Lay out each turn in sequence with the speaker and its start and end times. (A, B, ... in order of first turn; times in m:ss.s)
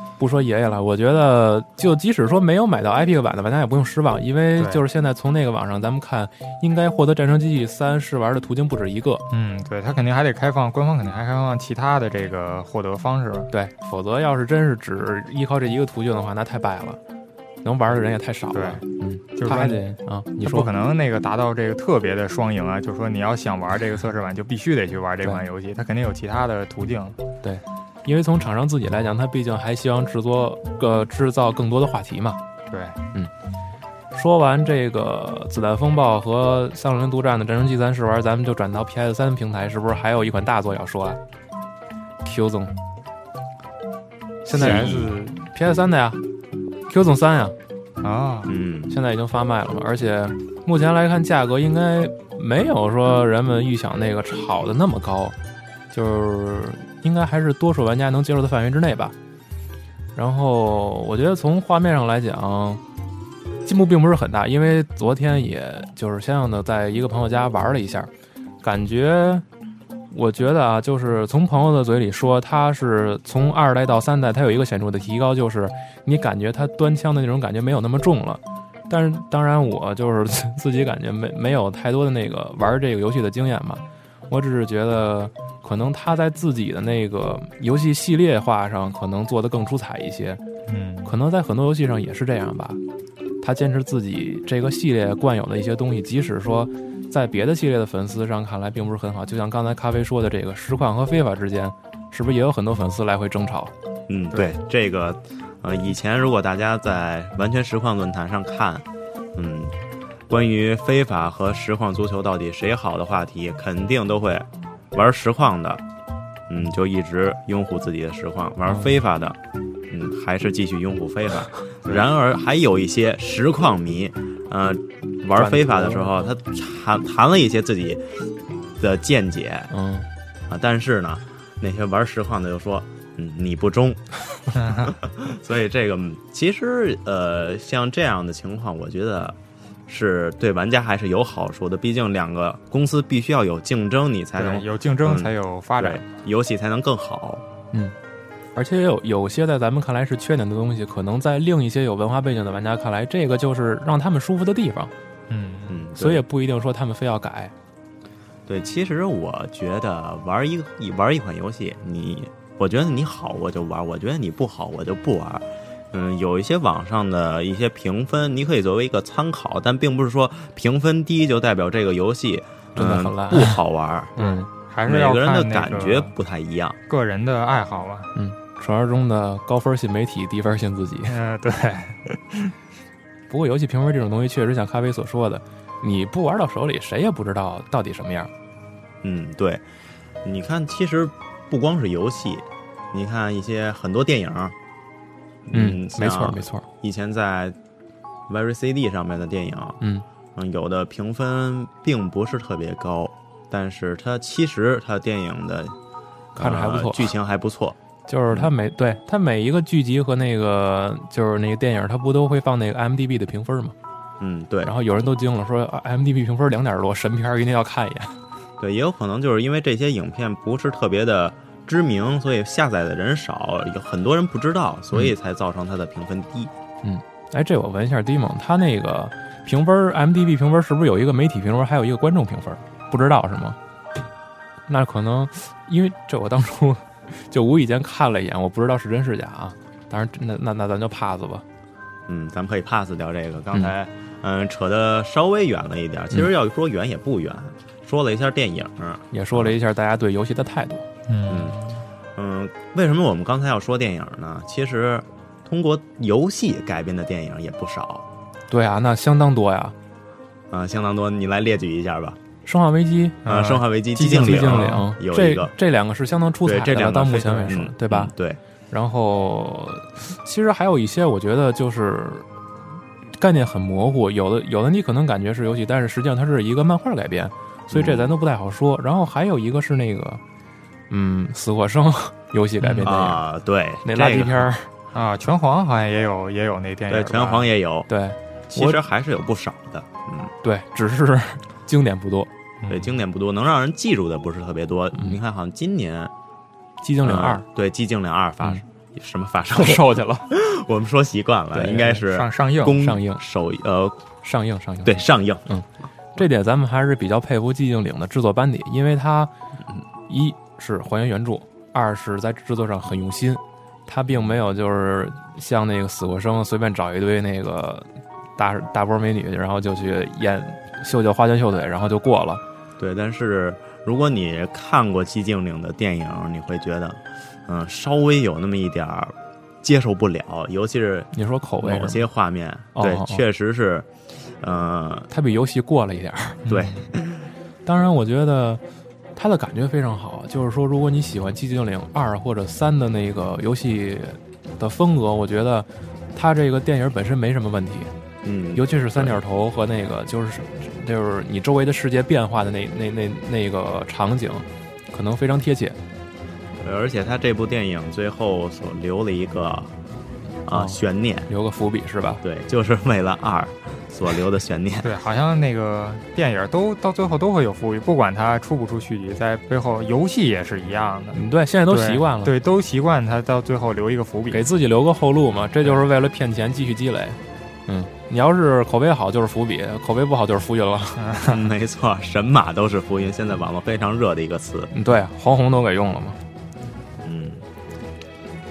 0:00.2-0:09.2 A
0:04.6-0:04.8 B
0:09.3-0:13.5 B
0:13.5-0:17.0 A
0:17.6-0:20.7 A
0:18.5-0:18.8 B
0:19.4-0:19.8 B
0:20.4-0:27.2 B
0:27.4-0:32.4 A
0:32.7-0:33.0 B
0:34.1-0:41.2 A
0:42.2-0:42.7 A
0:44.4-0:46.2 A
0:44.5-0:45.4 B
0:46.9-0:47.6 A
0:48.0-0:48.5 B
0:48.5-0:49.0 C
0:48.9-0:55.4 A
0:55.9-0:59.1 A
1:00.2-1:02.8 A
1:03.6-1:08.1 A
1:08.6-1:09.4 A
1:10.1-1:30.4 A
1:30.7-1:31.1 B
1:31.0-1:32.8 A
1:33.4-1:43.7 A
1:44.1-1:49.7 C
1:50.3-1:55.8 C
1:56.5-1:59.4 C
1:59.9-2:09.7 C
2:05.4-2:06.1 A
2:09.7-2:10.1 A
2:10.5-2:27.4 C
2:14.6-2:14.9 B
2:24.4-2:26.0 B
2:28.6-2:34.9 A
2:35.3-2:35.8 B
2:35.7-2:36.2 C
2:36.0-2:37.5 A
2:38.5-2:54.2 C
2:52.8-2:53.6 A
2:54.2-2:54.5 A
2:54.2-2:56.1 B
2:54.9-2:56.8 C
2:56.9-2:58.1 B
2:58.2-3:01.2 A
3:01.1-3:02.5 B
3:03.3-3:08.3 A
3:09.0-3:09.6 C
3:10.2-3:14.6 C
3:15.5-3:17.6 C
3:15.5-3:16.6 A
3:18.3-3:19.8 C
3:19.8-3:20.0 A
3:20.4-3:25.8 C
3:26.4-3:27.1 A
3:26.4-3:27.8 C
3:28.1-3:33.8 A
3:34.2-3:34.7 C
3:34.6-3:38.2 A
3:38.6-3:46.5 C
3:46.8-3:53.6 A
3:54.7-4:01.4 A
4:02.1-4:09.6 C
4:09.1-4:10.8 A
4:11.1-4:11.8 B
4:11.3-4:11.6 C
4:12.2-4:18.0 C
4:18.5-4:19.8 A
4:20.5-4:22.2 C
4:22.5-4:23.2 A
4:23.2-4:24.8 B
4:23.2-4:25.5 C
4:24.1-4:28.1 A
4:26.4-4:28.4 C
4:28.7-4:32.3 A
4:33.2-4:40.2 A
4:37.7-4:38.1 C
4:40.9-4:43.2 A
4:42.6-4:42.9 B
4:42.8-4:44.5 C
4:43.8-4:44.7 A
4:44.9-4:47.5 B
4:46.9-4:47.9 C
4:47.9-4:48.8 A
4:48.5-4:50.3 C
4:50.4-4:52.3 A
4:52.6-4:52.9 B
4:52.7-4:56.1 C
4:56.8-4:57.4 A
4:57.0-5:04.0 C
4:59.5-5:00.3 A
5:01.5-5:02.0 A
5:02.0-5:02.8 B
5:02.8-5:03.2 A
5:04.2-5:09.3 A
5:04.8-5:05.4 C
5:10.1-5:22.4 A
5:22.8-5:31.1 C
5:31.1-5:32.0 A
5:31.6-5:33.9 C
5:32.8-5:33.2 A
5:34.4-5:35.1 C
5:35.1-5:36.4 A
5:36.4-5:36.8 B
5:36.5-5:37.3 C
5:37.6-5:38.6 A
5:39.2-5:47.9 A
5:48.2-5:49.2 C
5:48.6-5:55.8 A
5:56.6-5:59.7 C
6:00.5-6:01.3 C
6:00.5-6:00.8 A
6:01.3-6:02.2 A
6:02.2-6:04.9 C
6:04.8-6:14.5 B
6:11.1-6:12.3 A
6:14.3-6:21.0 A
6:21.0-6:21.5 B
6:21.3-6:24.7 C
6:24.7-6:26.2 A
6:27.0-6:27.4 C